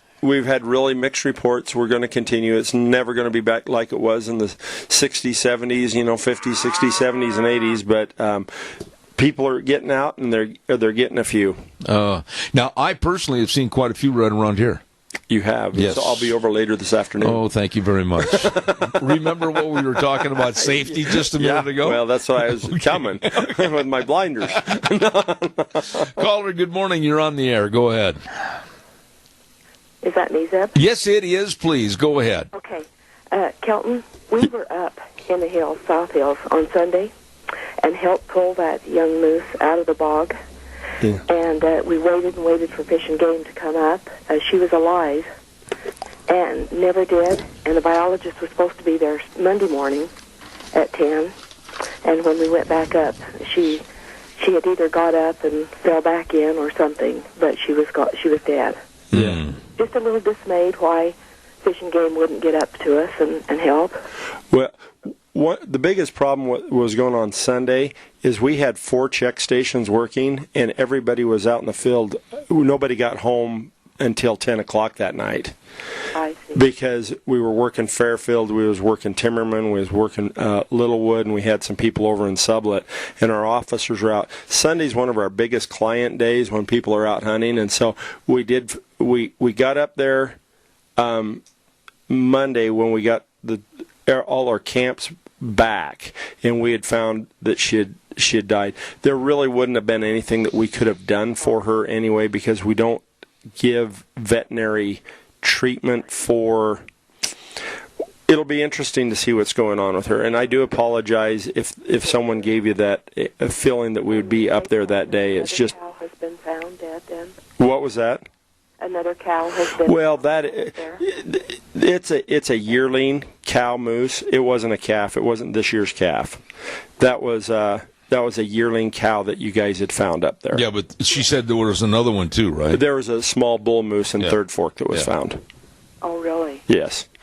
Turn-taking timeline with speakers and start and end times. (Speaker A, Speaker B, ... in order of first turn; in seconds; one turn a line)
Speaker A: 0.2-8.5
Speaker A: 9.2-11.6
Speaker B: 11.8-14.8
Speaker A: 15.3-17.4
Speaker B: 15.7-16.3
Speaker B: 17.2-23.7
Speaker A: 18.2-18.8
Speaker A: 20.6-26.2
Speaker B: 25.9-28.2
Speaker C: 30.0-30.8
Speaker B: 30.7-32.5
Speaker C: 32.5-37.1
Speaker C: 37.8-40.4
Speaker C: 41.3-45.2
Speaker C: 46.3-50.1
Speaker C: 50.7-51.3
Speaker C: 52.0-53.8
Speaker C: 54.4-58.8
Speaker A: 59.1-59.4
Speaker B: 59.1-59.5
Speaker C: 59.8-64.0
Speaker A: 64.5-75.5
Speaker C: 76.1-76.6
Speaker A: 76.5-90.4
Speaker A: 91.0-91.4
Speaker A: 92.1-103.0
Speaker A: 103.5-106.8
Speaker A: 108.3-115.7
Speaker C: 114.5-117.4
Speaker A: 117.6-118.2
Speaker C: 118.8-121.0
Speaker A: 119.7-126.4
Speaker A: 127.0-130.6
Speaker B: 130.5-132.8
Speaker A: 132.7-135.4
Speaker C: 136.0-136.6
Speaker A: 136.7-137.1